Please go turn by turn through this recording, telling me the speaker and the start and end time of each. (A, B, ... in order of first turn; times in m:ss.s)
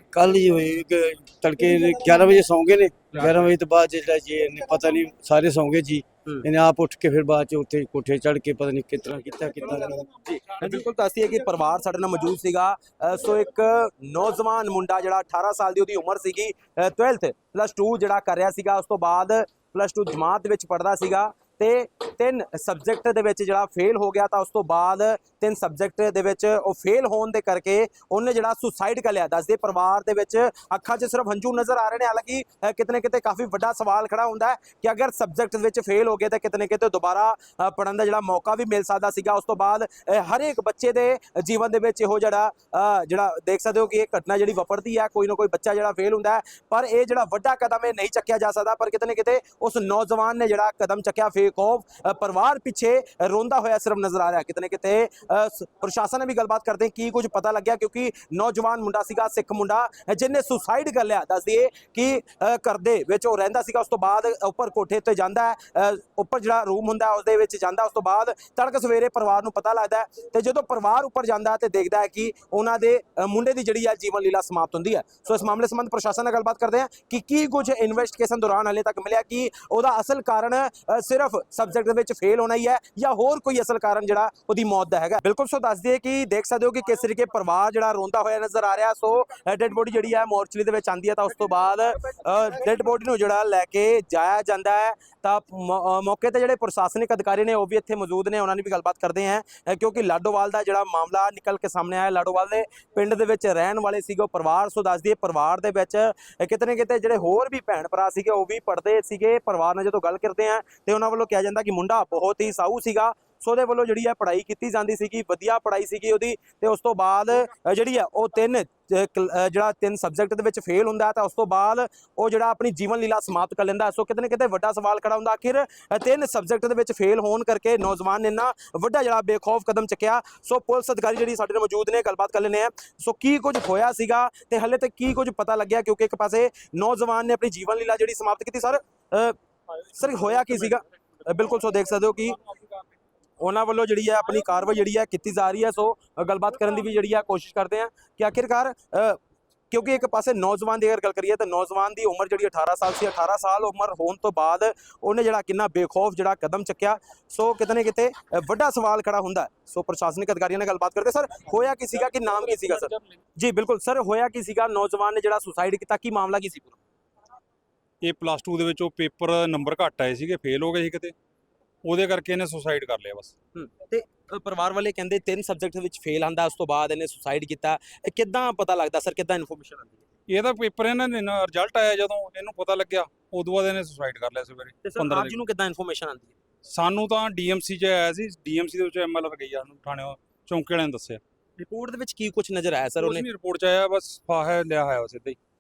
0:00.1-0:10.1 A
0:10.2-2:19.4 B
2:19.9-2:22.4 B
2:23.4-2:29.2 B
2:29.7-2:46.8 B
2:48.0-2:51.1 C
2:51.8-2:53.3 C
2:53.5-3:00.0 B
3:00.3-3:05.4 C
3:04.8-3:06.3 B
3:06.7-3:11.2 C
3:11.6-3:13.3 B
3:13.0-3:15.4 C